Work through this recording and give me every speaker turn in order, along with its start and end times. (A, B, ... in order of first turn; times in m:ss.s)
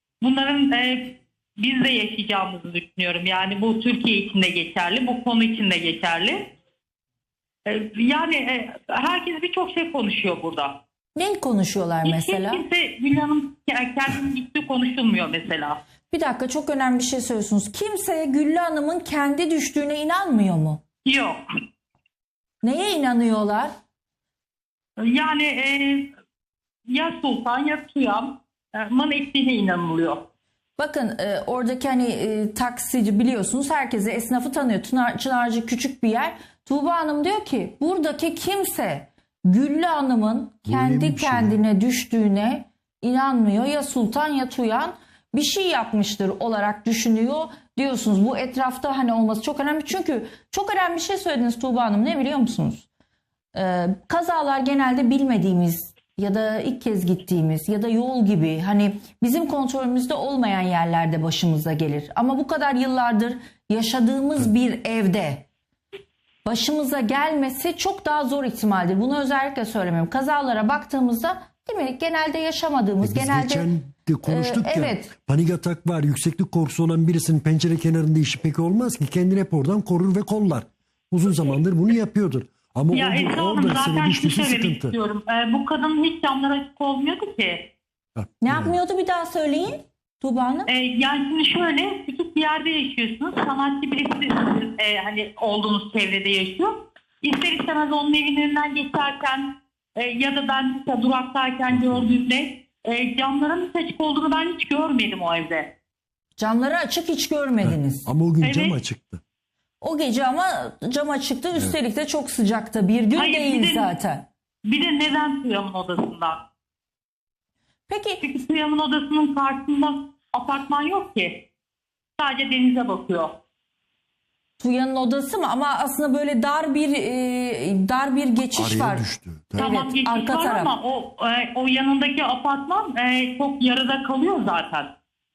0:00.2-0:06.5 A
0:07.6-0:10.8 A
0:11.1-0:12.6 B
0:12.0-0:15.8 A
0:16.1-0:20.8 B
0:21.0-0:21.4 A
0:22.6-0:23.7 B
0:25.0-0:26.1 A
0:26.9-0:30.2 A
0:30.8-0:52.9 B
0:40.7-0:41.6 C
0:53.5-1:05.4 B
1:06.4-1:13.7 B
1:13.0-1:25.0 C
1:14.2-1:15.1 B
1:22.9-1:27.7 A
1:28.2-1:28.8 C
1:28.4-1:30.7 B
1:30.7-1:45.7 A
1:41.7-1:42.1 C
1:46.4-1:48.0 B
1:47.6-1:49.2 C
1:48.4-1:48.8 A
1:49.8-1:54.2 B
1:53.1-1:54.0 A
1:54.6-1:56.4 A
1:57.9-1:58.2 B
1:58.2-2:01.4 A
2:02.2-2:03.4 A
2:04.6-2:10.7 B
2:08.5-2:09.7 C
2:09.6-2:14.9 A